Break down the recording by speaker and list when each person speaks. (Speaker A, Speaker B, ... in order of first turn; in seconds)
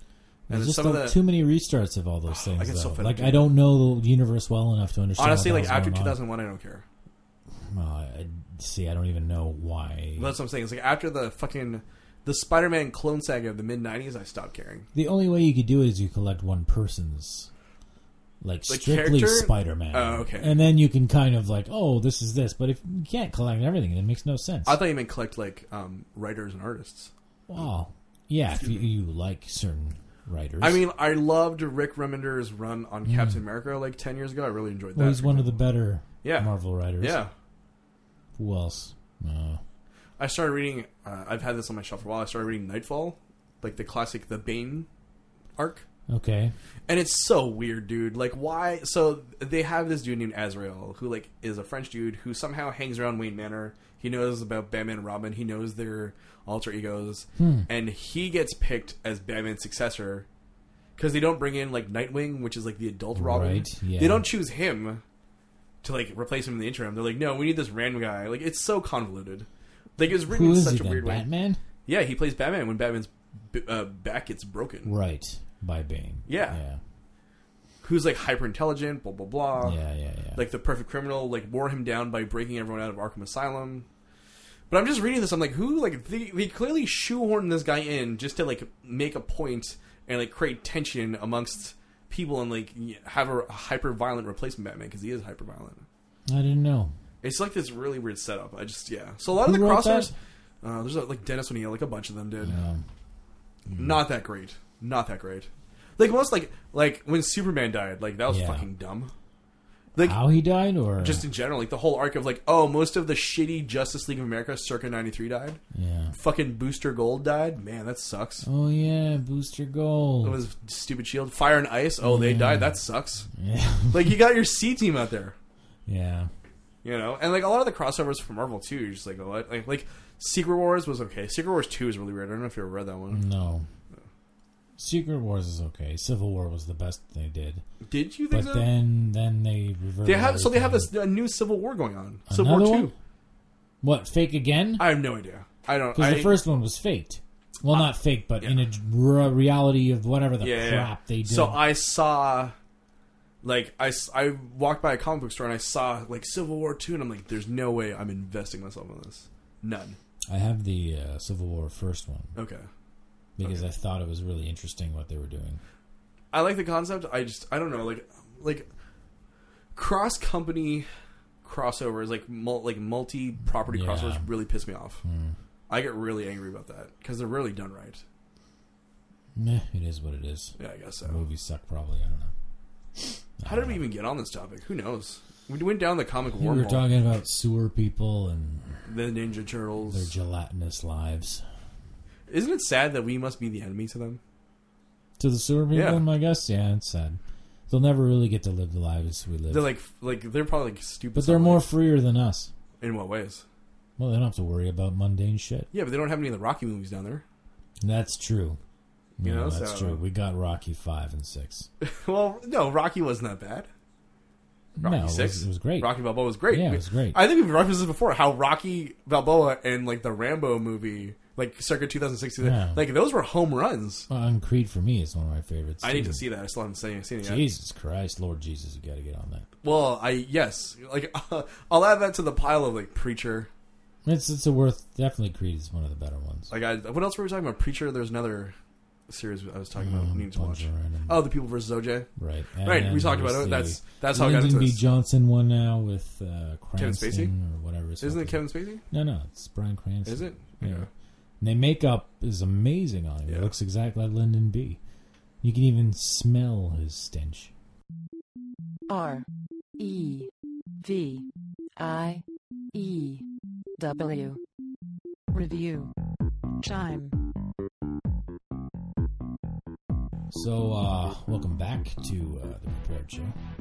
Speaker A: 0.5-6.2, 7.7-10.3, 14.9-17.5, 18.4-24.8, 27.5-30.8, 33.1-33.4, 35.0-37.2, 38.4-39.6, 46.1-46.5, 57.4-57.7, 63.2-64.3, 70.3-71.6, 74.9-76.8, 79.6-80.4, 96.3-96.9, 99.3-100.1, 102.4-102.8, 103.7-104.0, 108.3-108.7, 110.0-111.2, 115.7-116.1, 118.4-120.4, 122.0-122.8, 123.3-124.2, 125.9-126.3, 133.1-133.7, 134.8-137.6, 138.3-140.9, 142.3-142.9, 143.8-144.9, 145.9-151.6, 160.3-162.3, 163.4-165.6, 173.7-174.2, 175.0-175.4, 179.4-182.3, 183.4-183.8, 186.4-188.8, 189.9-191.4, 195.2-199.7, 201.2-202.5, 204.0-205.7, 207.8-208.6, 209.2-211.7, 214.8-217.2, 222.4-222.9, 224.1-226.2, 227.2-229.5, 234.1-236.5, 239.8-241.3, 242.2-250.9, 251.4-254.8, 255.4-257.5, 270.3-273.4
Speaker B: 0.5-1.2, 2.3-3.5, 5.2-6.8, 10.2-14.9, 18.7-20.6, 24.7-27.1, 30.6-35.6, 36.2-37.3, 40.2-44.9, 45.6-45.9, 46.9-60.3, 61.0-65.0, 65.8-71.2, 71.9-74.9, 76.3-76.6, 77.8-79.8, 80.3-83.9, 84.7-95.8, 97.2-102.6, 103.7-109.1, 110.0-110.2, 111.0-115.6, 116.1-118.5, 120.2-123.3, 123.9-125.3, 126.8-133.2, 137.8-138.7, 140.0-142.9, 144.8-146.4, 150.4-152.6, 153.4-160.0, 162.3-162.7, 166.3-168.7, 169.8-170.9, 171.4-175.0, 175.7-178.0, 180.6-181.2, 183.4-186.8, 188.9-190.1, 192.3-194.2, 195.7-196.0, 199.5-201.7, 202.8-203.4, 205.7-207.2, 209.2-210.0, 211.8-213.7, 214.8-224.1, 225.8-227.5, 229.6-233.5, 236.5-238.5, 239.1-242.1, 242.6-244.8, 246.8-247.3, 248.0-248.8, 250.1-250.9, 253.3-253.5
Speaker C: 258.9-259.2, 259.8-260.3, 260.8-261.3, 261.8-263.2, 263.8-264.4, 265.3-265.9, 266.6-267.1